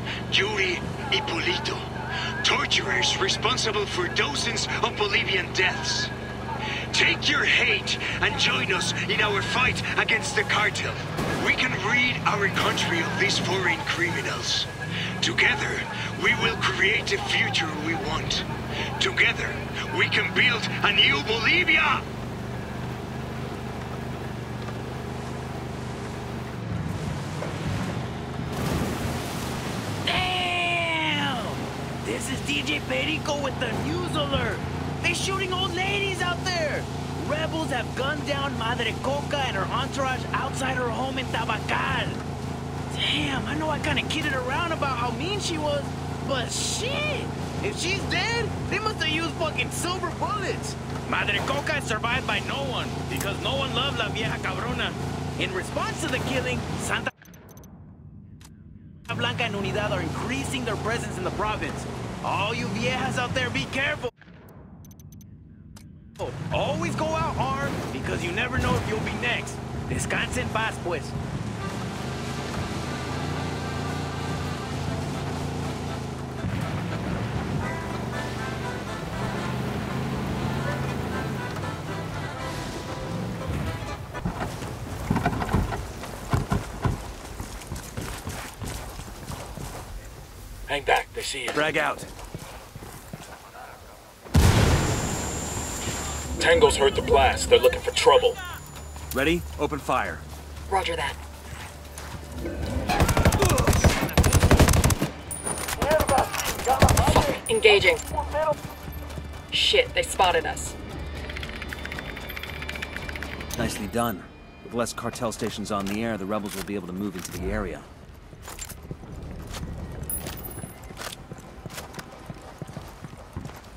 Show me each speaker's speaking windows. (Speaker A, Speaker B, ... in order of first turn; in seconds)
Speaker A: 0.3-6.1, 6.9-22.1
Speaker B: 30.1-42.2, 42.9-57.1, 59.1-64.1, 66.2-71.1
Speaker C: 90.7-91.7, 96.4-98.4
Speaker D: 91.5-92.1, 99.1-100.2, 113.5-117.9
Speaker E: 100.7-101.2, 107.0-108.0, 109.5-110.8